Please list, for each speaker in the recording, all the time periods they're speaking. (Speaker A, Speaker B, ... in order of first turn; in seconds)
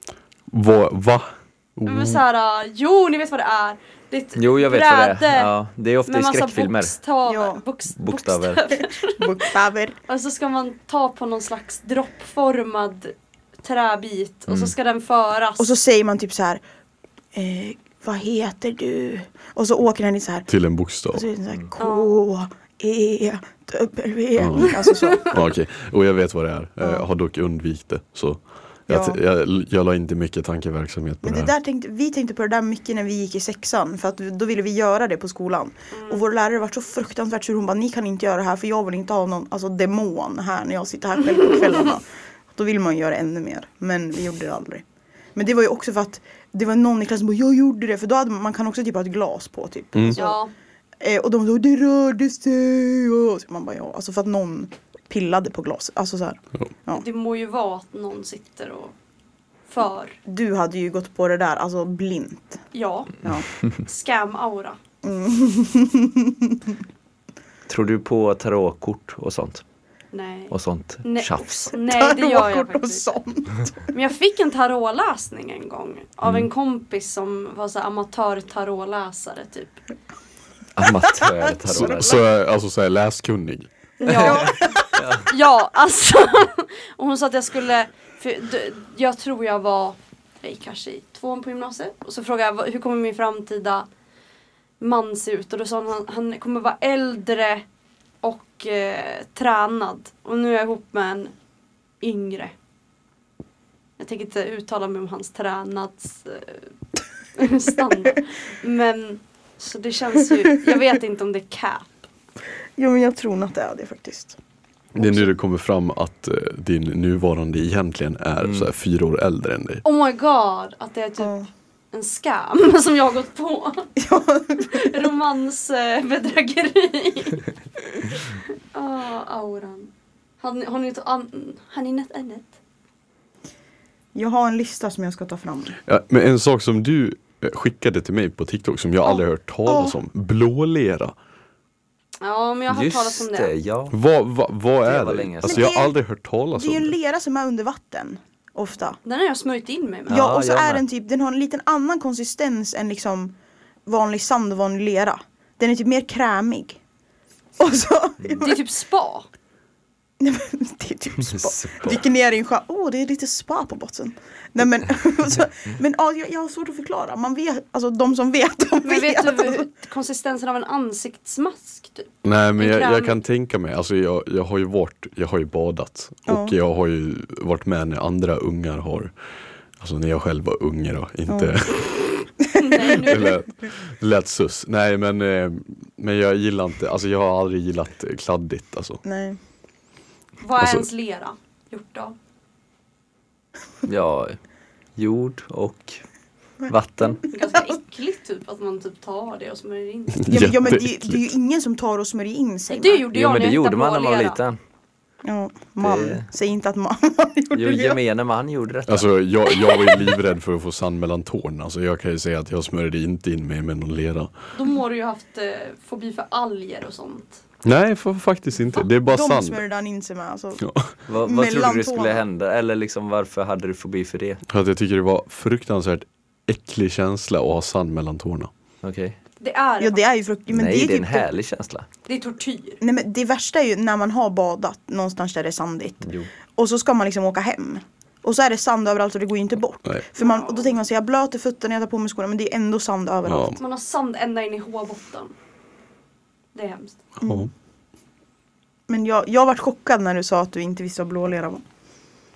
Speaker A: 0.5-2.2, 20.5-21.3, 24.4-31.5, 49.9-50.2, 81.7-83.7, 114.9-119.8, 135.9-141.2, 143.9-147.0, 172.2-179.1, 179.8-182.0, 182.9-189.0, 190.6-190.8, 200.2-201.3, 208.9-214.3, 217.6-219.6, 220.6-220.9, 224.5-228.5, 243.3-243.6, 247.2-247.5
Speaker B: 1.9-5.5, 6.1-9.5, 10.1-15.7, 21.8-22.2, 24.8-25.4, 35.9-36.2, 50.2-50.5, 56.9-58.9, 59.7-60.2, 62.7-64.8, 70.1-73.1, 73.9-79.7, 84.0-93.9, 94.8-97.6, 98.2-101.3, 102.0-102.5, 104.0-106.7, 107.3-111.9, 119.8-121.4, 121.9-123.9, 124.6-127.4, 128.7-132.5, 142.2-143.5, 149.1-150.2, 158.4-159.3, 168.8-173.2, 182.6-183.4, 190.4-192.2, 197.2-200.6, 202.7-204.4, 214.5-217.4, 229.4-230.1, 232.1-232.8, 240.2-240.8, 243.6-245.3, 246.5-247.0
Speaker C: 4.4-7.0, 8.0-8.7, 14.5-14.8, 67.7-69.6, 70.5-71.6, 80.8-82.2, 84.0-85.3, 118.4-118.7, 142.7-143.9, 144.8-145.7, 150.1-150.8, 161.2-162.0, 193.8-194.4, 195.0-196.0, 196.7-197.2, 203.1-204.6, 205.8-206.3, 207.5-209.2, 221.1-224.4, 228.8-229.2, 230.5-231.8, 236.0-236.3
Speaker D: 7.2-7.6, 9.0-10.0, 15.6-16.6, 17.3-20.5, 21.1-25.4, 28.9-29.2, 31.2-44.8, 45.4-50.4, 51.0-57.0, 60.2-62.6, 65.0-66.7, 71.8-73.8, 81.2-82.0, 84.1-84.9, 112.8-114.4, 115.0-115.3, 121.2-121.5, 124.0-125.1, 134.1-135.8, 139.7-140.0, 145.4-146.0, 146.6-149.0, 150.1-153.3, 153.8-156.8, 157.6-158.7, 160.2-169.7, 176.3-176.6, 181.3-181.6, 182.6-183.3, 189.0-189.4, 196.6-197.6, 200.3-203.1, 205.2-208.0, 219.1-220.7, 221.2-222.2, 229.8-231.3, 232.8-243.6, 247.2-247.5, 248.9-251.6